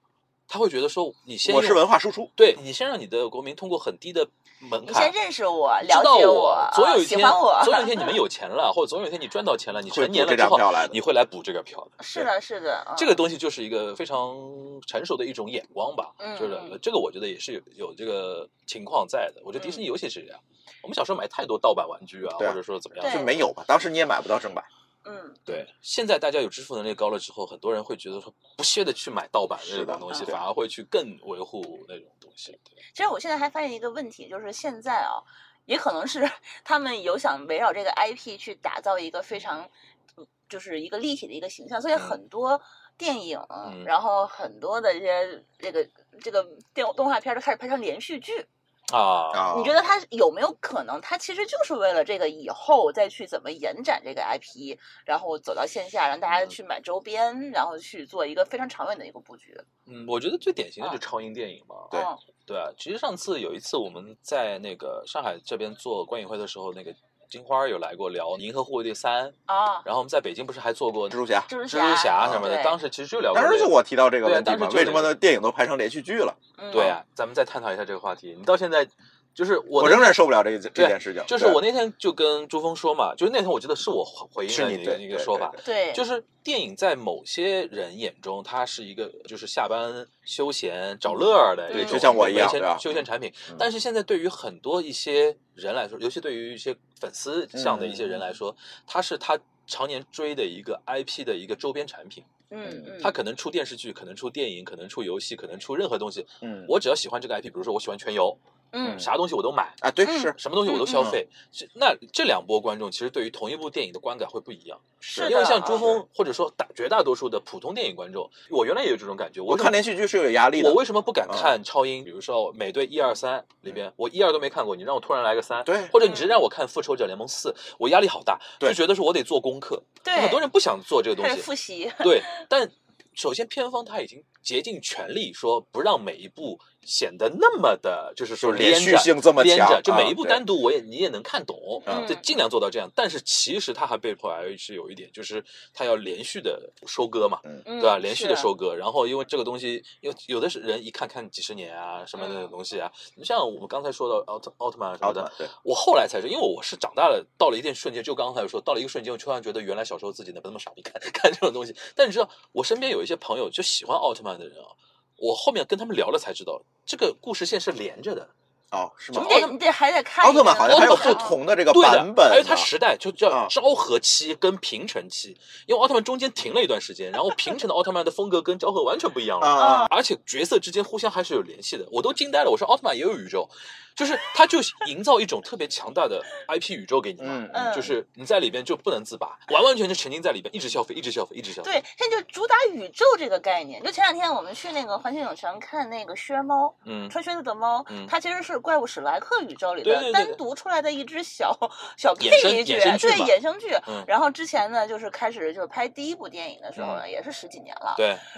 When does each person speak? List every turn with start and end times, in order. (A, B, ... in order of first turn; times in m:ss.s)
0:00.5-0:05.2 A
0:01.4-0:02.3 B
0:04.8-0:08.2 C
0:05.8-0:12.0 A
0:09.9-0:11.0 B
0:12.0-0:13.2 C
0:13.0-0:23.4 A
0:16.2-0:16.8 C
0:19.6-0:19.8 C
0:22.4-0:24.7 B
0:23.0-0:23.3 C
0:25.0-0:25.4 C
0:25.5-0:32.6 A
0:29.6-0:30.4 B
0:32.9-0:39.7 C
0:40.5-0:48.5 C
0:43.6-0:43.9 A
0:48.9-0:49.5 A
0:49.3-0:49.8 B
0:49.5-0:59.6 C
0:59.8-1:01.9 A
1:01.9-1:02.2 C
1:02.4-1:15.2 A
1:09.5-1:09.8 C
1:11.1-1:11.5 B
1:11.5-1:12.8 C
1:12.2-1:12.5 B
1:13.3-1:17.0 B
1:16.6-1:16.9 C
1:16.7-1:42.3 A
1:19.8-1:21.6 B
1:24.5-1:25.6 B
1:25.6-1:26.0 C
1:31.1-1:33.6 B
1:31.7-1:32.1 C
1:37.5-1:38.2 B
1:42.5-1:43.2 C
1:43.0-1:59.9 A
1:46.4-1:46.7 B
1:48.7-1:49.1 C
1:48.8-1:49.1 B
1:49.8-1:50.4 B
1:50.0-1:51.1 C
1:50.9-1:51.2 B
1:55.0-1:56.0 B
1:55.1-1:55.9 C
1:59.5-2:01.5 B
2:00.5-2:11.5 A
2:05.6-2:05.9 B
2:06.0-2:06.4 C
2:10.0-2:10.4 C
2:11.2-2:12.2 C
2:12.0-2:48.3 A
2:18.4-2:20.4 B
2:21.8-2:22.1 B
2:21.8-2:22.3 C
2:27.6-2:28.5 C
2:32.2-2:32.5 C
2:35.0-2:35.5 B
2:48.7-2:49.5 B
2:49.1-2:49.5 A
2:49.2-2:51.4 C
2:50.2-2:52.7 B
2:50.6-3:11.7 A
2:59.4-2:59.9 B
2:59.6-2:59.9 C
3:07.2-3:07.9 B
3:07.5-3:07.9 C
3:11.6-3:28.0 C
3:16.8-3:17.1 A
3:17.9-3:18.1 A
3:19.8-3:20.4 A
3:22.2-3:23.3 A
3:26.8-3:27.0 A
3:27.9-3:28.2 A